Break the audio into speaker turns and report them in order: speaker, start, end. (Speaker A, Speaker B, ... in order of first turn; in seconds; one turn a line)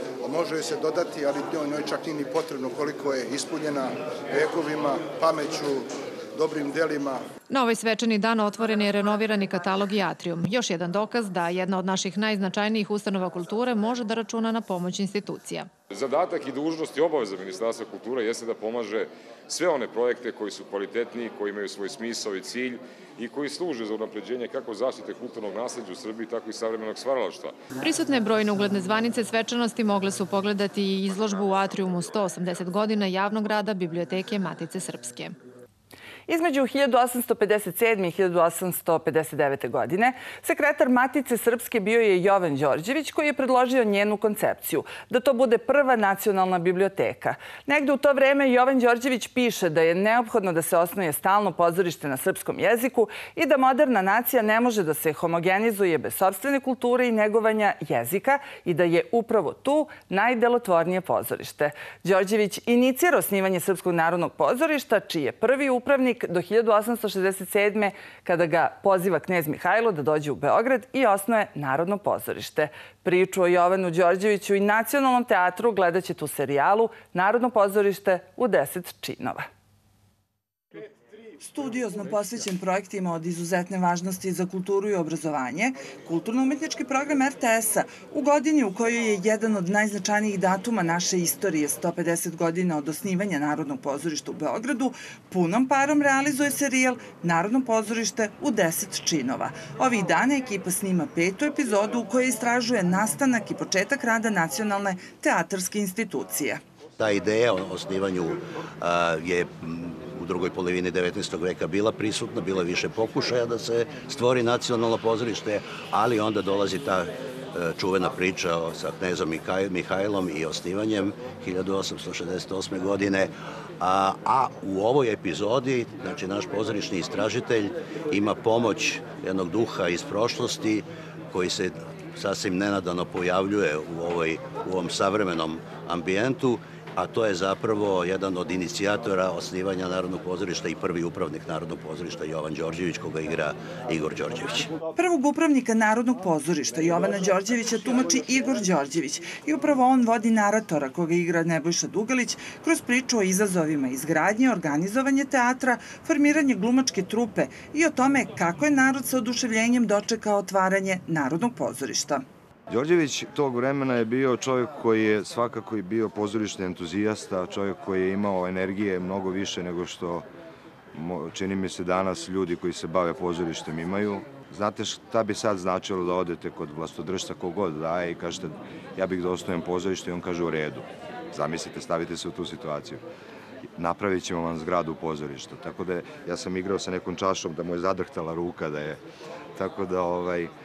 Speaker A: 0.2-7.2
Speaker B: 7.5-15.7
Speaker C: 15.9-27.5
Speaker B: 27.8-35.4
Speaker D: 36.3-79.5
Speaker D: 81.4-106.6
Speaker E: 107.0-144.7
Speaker D: 144.9-162.2
Speaker F: 162.7-170.3
Speaker F: 170.9-183.0
Speaker F: 183.8-189.0
Speaker F: 189.6-190.5